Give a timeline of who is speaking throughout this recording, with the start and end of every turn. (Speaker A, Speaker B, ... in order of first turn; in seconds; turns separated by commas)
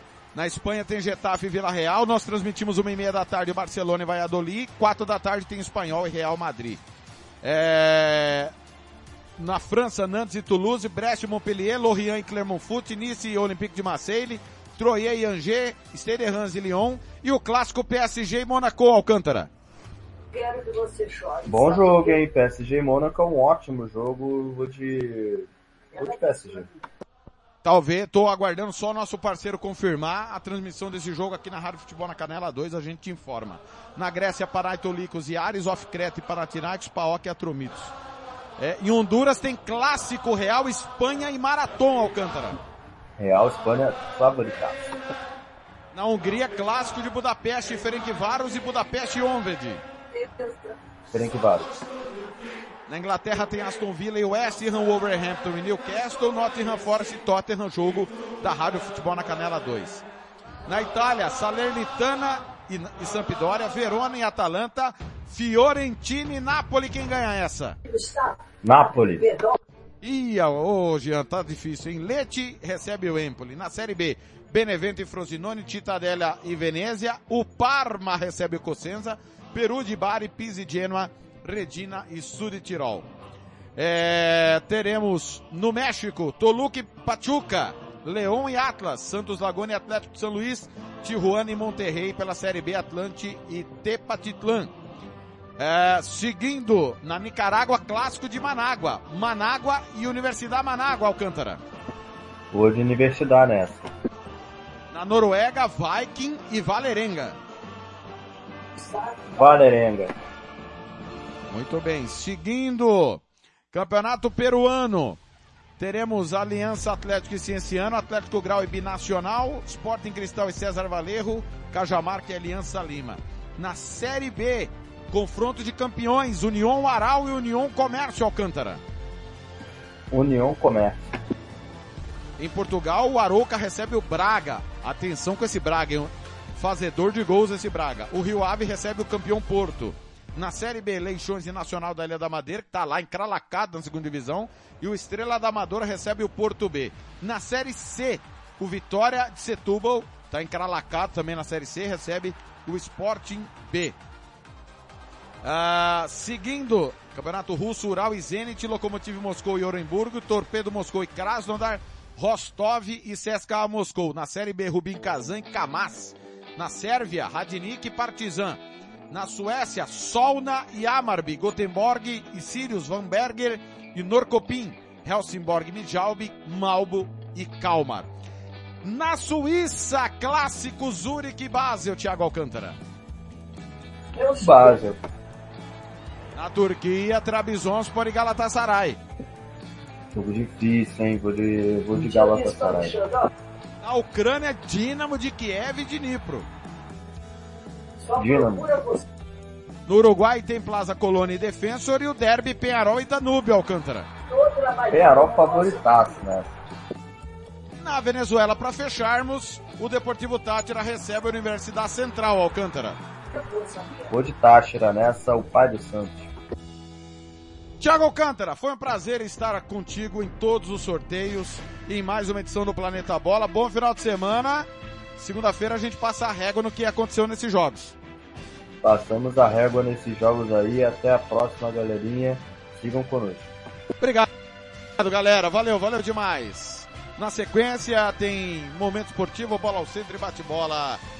Speaker A: 0.3-6.8, Speaker A: 7.4-8.5, Speaker A: 9.4-19.5, Speaker B: 20.3-22.2, Speaker C: 21.4-26.7, Speaker A: 27.6-37.9, Speaker A: 38.6-42.6, Speaker C: 43.2-44.9, Speaker A: 45.9-49.8, Speaker B: 50.1-50.8, Speaker C: 51.1-51.7, Speaker A: 52.9-60.0, Speaker A: 60.6-67.8, Speaker B: 67.9-68.4, Speaker C: 68.6-69.3, Speaker B: 69.2-69.6, Speaker A: 70.0-83.1, Speaker A: 83.8-94.7, Speaker A: 95.6-101.6, Speaker C: 102.5-103.8, Speaker A: 104.9-107.4, Speaker B: 108.7-109.6, Speaker C: 109.3-110.1, Speaker A: 111.5-113.2, Speaker A: 113.7-115.2, Speaker A: 115.8-128.8, Speaker C: 130.1-131.1, Speaker A: 132.4-153.9, Speaker A: 155.4-168.6, Speaker A: 169.1-178.1, Speaker A: 178.8-182.8, Speaker B: 184.2-184.9, Speaker C: 184.3-185.0, Speaker A: 186.3-189.0, Speaker C: 190.1-193.0, Speaker B: 191.9-193.3, Speaker A: 193.8-196.5, Speaker B: 198.0-199.1, Speaker C: 198.1-198.7, Speaker A: 199.9-204.1, Speaker B: 204.3-206.1, Speaker C: 204.9-206.6, Speaker A: 207.8-213.0, Speaker B: 213.3-214.1, Speaker C: 214.1-216.3, Speaker A: 217.8-227.9, Speaker C: 228.8-233.5, Speaker A: 234.0-234.3, Speaker A: 235.0-241.0